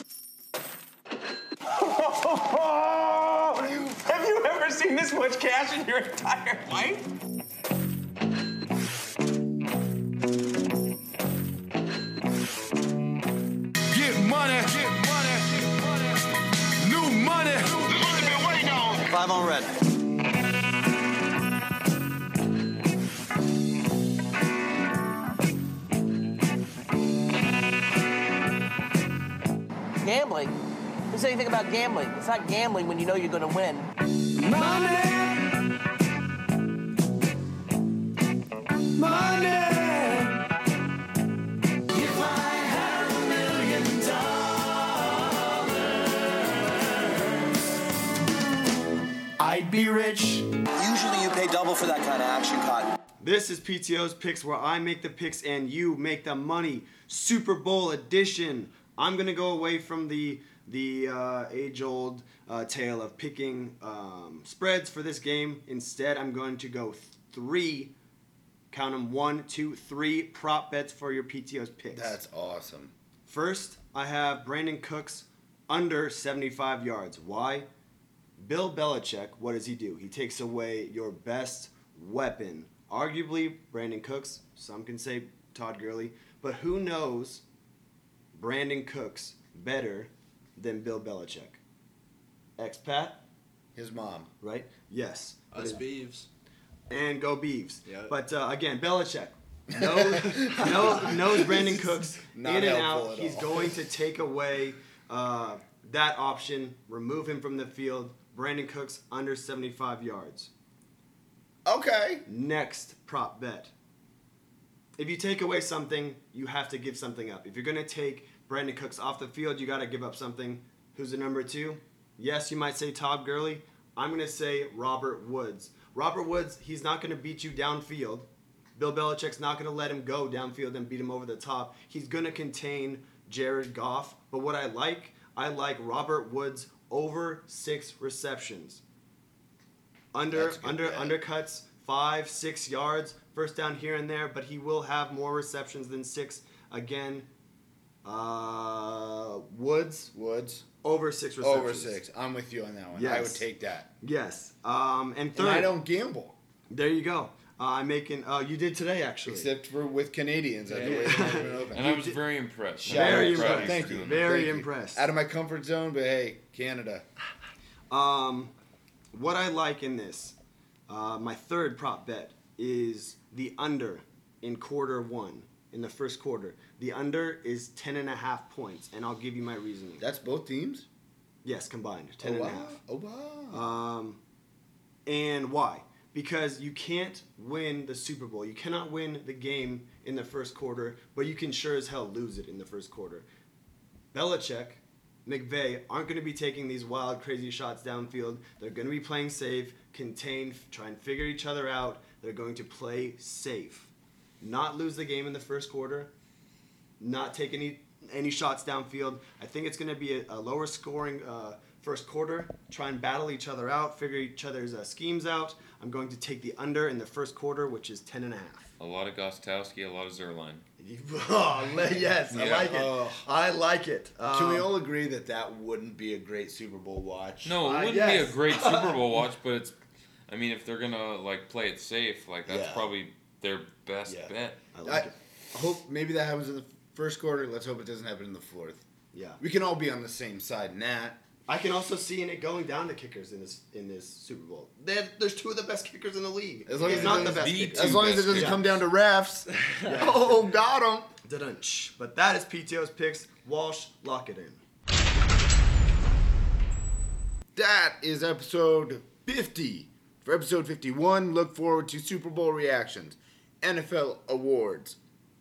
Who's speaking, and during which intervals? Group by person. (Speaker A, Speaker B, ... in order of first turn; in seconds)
Speaker A: 1.7-7.1
Speaker B: 13.9-15.4, 16.9-17.8
Speaker C: 19.1-19.7, 53.2-67.9, 68.7-72.2, 73.2-77.7, 78.4-87.4, 88.3-91.6, 92.6-93.2, 94.4-95.9, 96.9-110.5, 112.2-113.7, 115.0-138.8, 140.1-147.3, 148.0-150.1, 150.8-152.0, 152.9-153.4, 154.0-155.8, 156.7-159.5, 160.8-162.2, 162.8-165.1, 167.9-168.5, 169.1-170.3, 170.9-180.0, 181.4-182.8, 183.5-184.2, 185.1-193.3, 194.1-206.1, 207.0-218.7, 220.8-224.7, 227.6-229.2, 234.7-235.1, 239.1-239.4, 241.5-248.7, 249.8-250.6, 251.2-254.6
Speaker D: 30.0-30.5, 31.1-33.9
Speaker E: 41.9-44.3
Speaker F: 71.9-72.9, 93.8-94.3, 99.7-103.8, 111.7-112.2, 140.3-141.2, 150.1-150.6, 151.4-153.9, 155.3-156.3, 159.2-161.9, 162.8-167.1, 180.0-180.8, 182.2-183.6, 222.3-223.2, 224.3-227.6, 232.5-232.9, 234.8-238.8, 239.4-241.2, 246.7-251.1, 257.5-265.0
Speaker G: 95.5-96.3, 97.8-98.2, 160.7-161.6
Speaker H: 161.7-164.4, 218.8-220.6, 222.3-222.7, 227.4-229.7, 230.3-234.6, 246.8-248.6